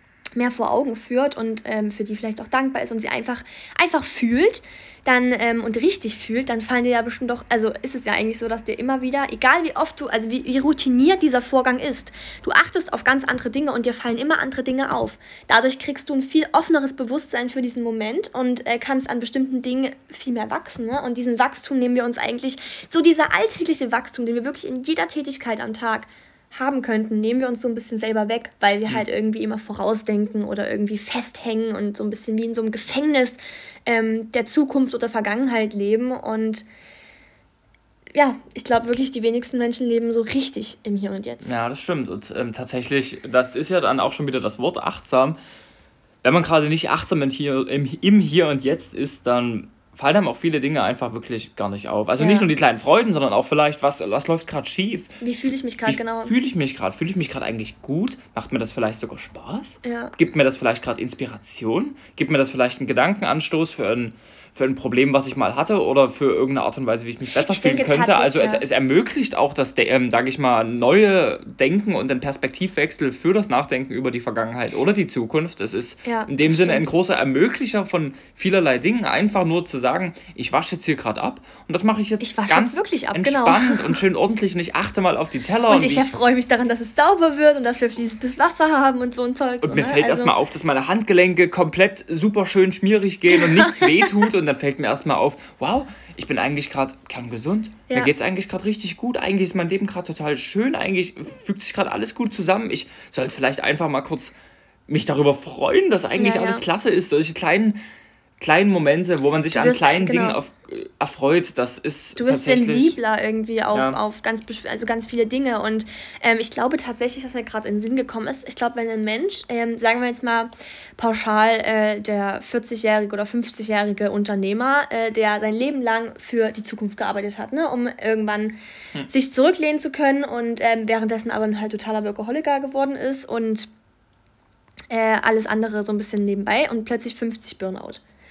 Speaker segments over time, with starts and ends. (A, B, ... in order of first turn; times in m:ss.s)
0:00.4-0:36.6 A
0:38.1-0:41.5 A
0:41.4-0:45.4 B
0:46.2-1:26.1 B
0:52.2-0:52.5 A
0:55.2-0:56.3 A
0:59.8-1:00.1 A
1:07.3-1:08.6 A
1:16.0-1:16.9 A
1:22.2-1:24.0 A
1:25.7-1:30.3 A
1:29.6-1:44.3 B
1:33.3-1:34.2 A
1:44.9-1:47.8 B
1:46.2-1:46.6 A
1:48.4-1:53.0 B
1:49.5-1:50.4 A
1:52.2-2:13.7 A
1:53.7-1:54.0 B
2:14.9-2:18.0 A